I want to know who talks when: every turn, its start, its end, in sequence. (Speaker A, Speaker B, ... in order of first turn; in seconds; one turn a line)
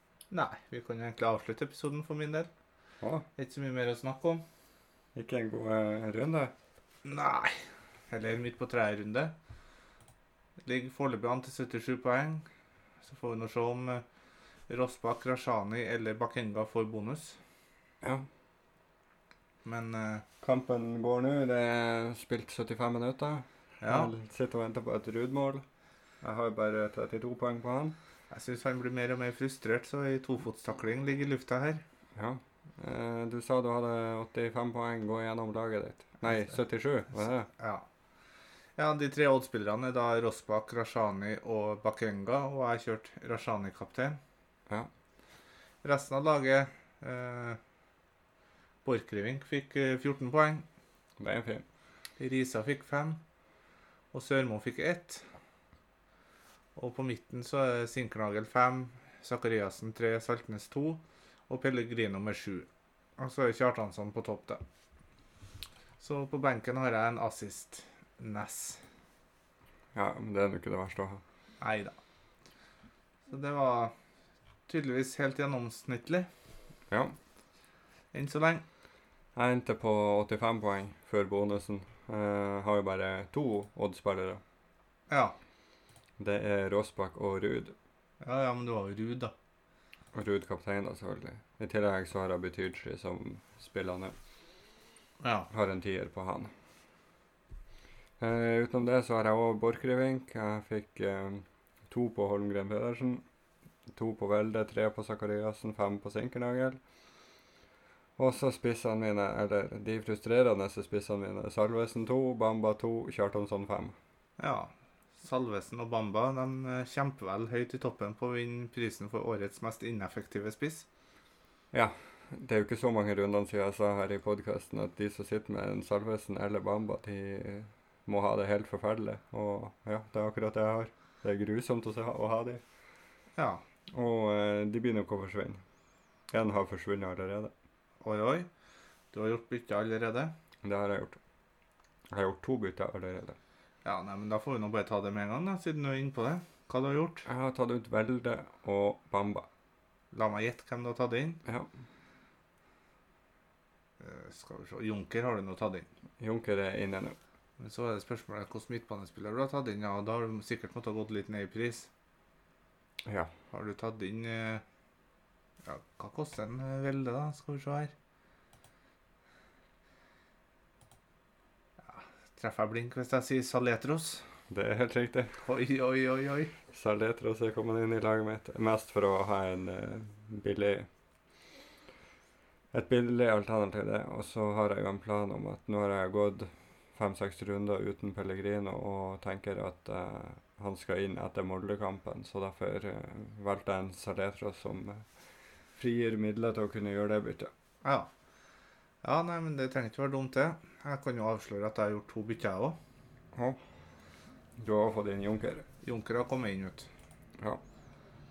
Speaker A: 0.3-2.5
Speaker A: 3.4-4.5
Speaker B: 5.2-6.5
Speaker A: 7.0-9.3
Speaker A: 10.7-12.5
Speaker A: 13.0-14.0
Speaker A: 14.7-17.4
Speaker A: 19.6-20.2
Speaker B: 20.4-25.6
Speaker A: 23.8-24.1
Speaker B: 26.2-28.0
Speaker A: 28.3-31.8
Speaker B: 32.1-37.5
Speaker A: 36.2-36.5
Speaker A: 37.5-37.9
Speaker A: 38.8-44.2
Speaker A: 45.8-47.6
Speaker A: 48.9-50.6
Speaker B: 51.2-51.6
Speaker A: 52.2-53.2
Speaker A: 54.1-55.3
Speaker A: 56.8-64.6
Speaker A: 66.0-68.8
Speaker B: 69.9-71.2
Speaker A: 71.6-72.0
Speaker A: 73.3-73.9
Speaker A: 74.7-76.3
Speaker B: 76.9-77.2
Speaker A: 78.1-78.6
Speaker B: 79.3-84.4
Speaker A: 85.1-85.4
Speaker B: 86.2-87.8
Speaker A: 88.2-89.3
Speaker B: 90.1-94.1
Speaker A: 95.2-95.5
Speaker B: 95.5-96.5
Speaker B: 98.2-103.2
Speaker B: 103.9-106.8
Speaker B: 108.2-114.0
Speaker A: 114.4-120.9
Speaker B: 121.7-132.6
Speaker A: 133.4-133.6
Speaker B: 133.9-135.6
Speaker B: 136.3-137.5
Speaker A: 138.0-138.5
Speaker A: 139.1-140.3
Speaker B: 140.6-141.2
Speaker B: 142.1-143.4
Speaker A: 143.8-147.3
Speaker B: 147.3-149.5
Speaker A: 150.1-151.4
Speaker B: 151.4-151.7
Speaker A: 154.0-155.9
Speaker B: 156.2-157.2
Speaker A: 157.6-161.9
Speaker B: 163.1-163.3
Speaker A: 163.5-164.6
Speaker A: 165.7-167.9
Speaker A: 171.9-174.2
Speaker B: 174.5-175.4
Speaker A: 175.4-176.6
Speaker B: 176.7-180.9
Speaker B: 182.7-195.1
Speaker B: 195.7-197.5
Speaker A: 197.8-198.1
Speaker A: 199.0-202.8
Speaker B: 203.3-203.6
Speaker B: 204.6-205.7
Speaker A: 205.8-206.9